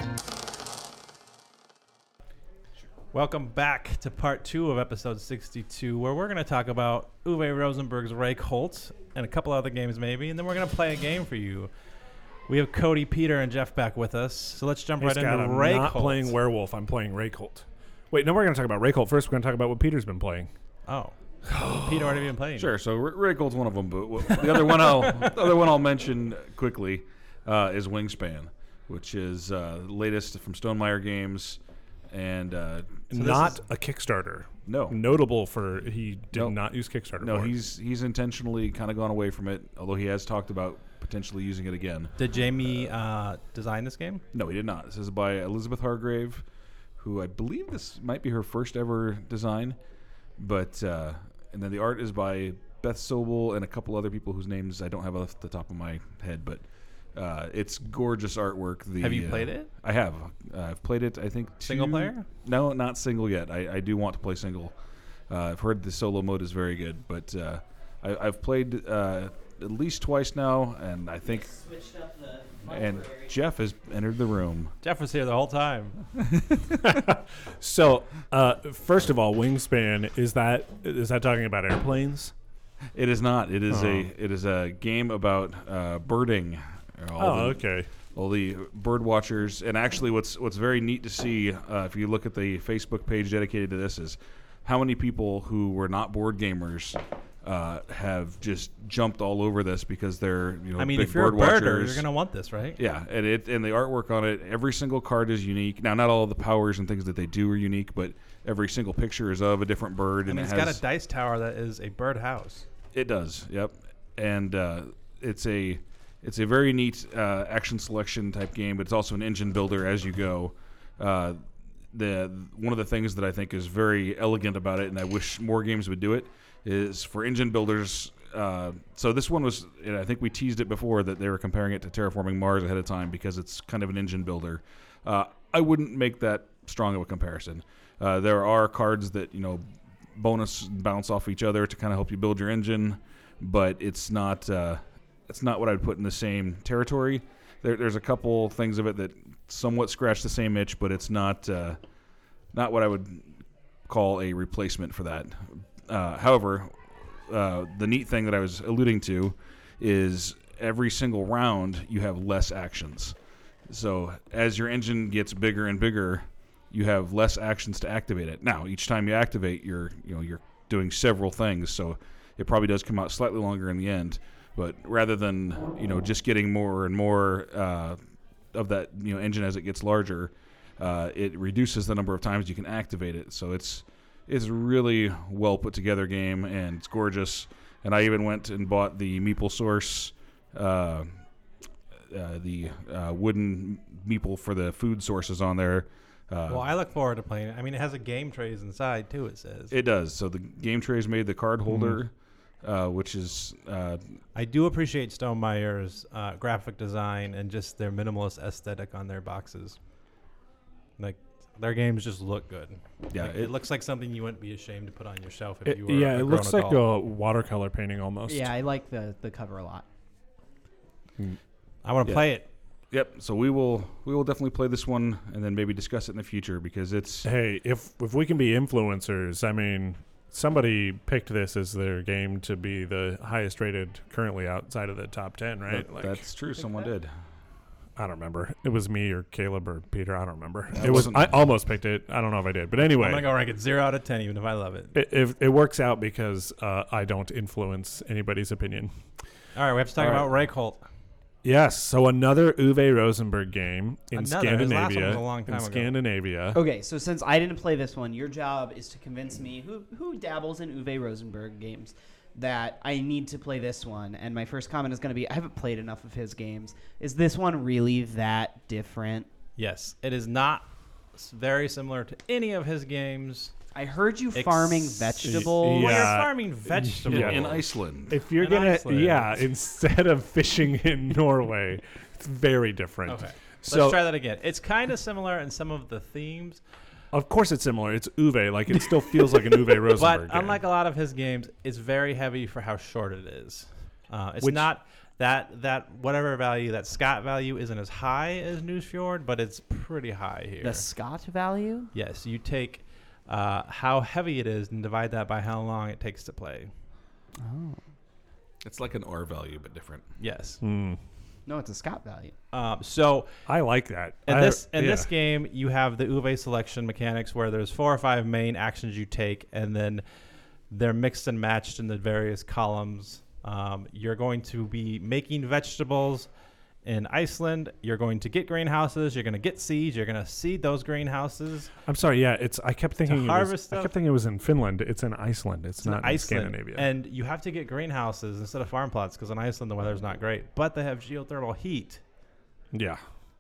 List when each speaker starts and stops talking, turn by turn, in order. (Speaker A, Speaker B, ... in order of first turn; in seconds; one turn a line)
Speaker A: 3.1-11.7
Speaker A: 12.5-16.3
Speaker B: 15.0-20.5
Speaker A: 20.9-22.7
Speaker C: 21.5-33.1
Speaker B: 33.1-37.5
Speaker A: 33.1-33.6
Speaker C: 34.7-35.0
Speaker C: 37.2-42.9
Speaker A: 42.2-44.2
Speaker C: 44.3-46.5
Speaker C: 47.0-49.8
Speaker C: 50.4-56.6
Speaker C: 57.1-64.7
Speaker A: 59.0-59.7
Speaker A: 61.7-62.3
Speaker C: 65.3-71.5
Speaker D: 71.3-73.3
Speaker C: 72.7-74.7
Speaker A: 74.8-76.0
Speaker B: 76.8-82.3
Speaker C: 82.9-87.6
Speaker B: 83.7-84.1
Speaker B: 87.2-87.9
Speaker C: 88.1-102.0
Speaker A: 100.8-102.8
Speaker C: 102.8-110.8
Speaker A: 110.3-112.7
Speaker C: 112.9-151.8
Speaker C: 152.5-163.2
Speaker C: 163.7-178.0
Speaker C: 178.5-191.2
Speaker C: 192.1-196.7
Speaker A: 196.5-199.8
Speaker C: 199.7-204.0
Speaker B: 201.7-202.0
Speaker A: 204.3-209.8
Speaker A: 211.0-216.8
Speaker C: 213.1-213.5
Speaker B: 215.7-218.5
Speaker D: 218.3-219.9
Speaker A: 221.8-222.5
Speaker C: 222.9-227.3
Speaker B: 227.2-236.2
Speaker C: 235.7-237.1
Speaker B: 238.0-243.3
Speaker C: 240.7-241.3
Speaker A: 242.9-244.9
Speaker B: 244.9-248.9
Speaker A: 249.6-250.8
Speaker B: 250.0-250.2
Speaker B: 251.4-256.6
Speaker A: 254.1-255.9
Speaker D: 256.5-269.3
Speaker A: 269.6-273.5
Speaker D: 273.7-276.2
Speaker A: 274.4-277.6
Speaker B: 275.2-284.0
Speaker C: 277.1-278.2
Speaker A: 278.4-279.4
Speaker A: 283.1-286.6
Speaker B: 287.1-290.6
Speaker A: 289.9-300.9
Speaker B: 294.4-294.7
Speaker D: 300.6-301.9
Speaker A: 301.9-306.7
Speaker D: 307.4-307.8
Speaker C: 308.6-310.1
Speaker A: 310.2-310.6
Speaker B: 310.6-311.0
Speaker D: 311.5-312.4
Speaker A: 312.5-313.3
Speaker B: 313.5-315.1
Speaker A: 314.3-320.0
Speaker A: 320.7-326.3
Speaker A: 326.8-331.7
Speaker B: 331.9-336.9
Speaker A: 333.1-333.9
Speaker A: 335.8-342.0
Speaker B: 342.7-343.0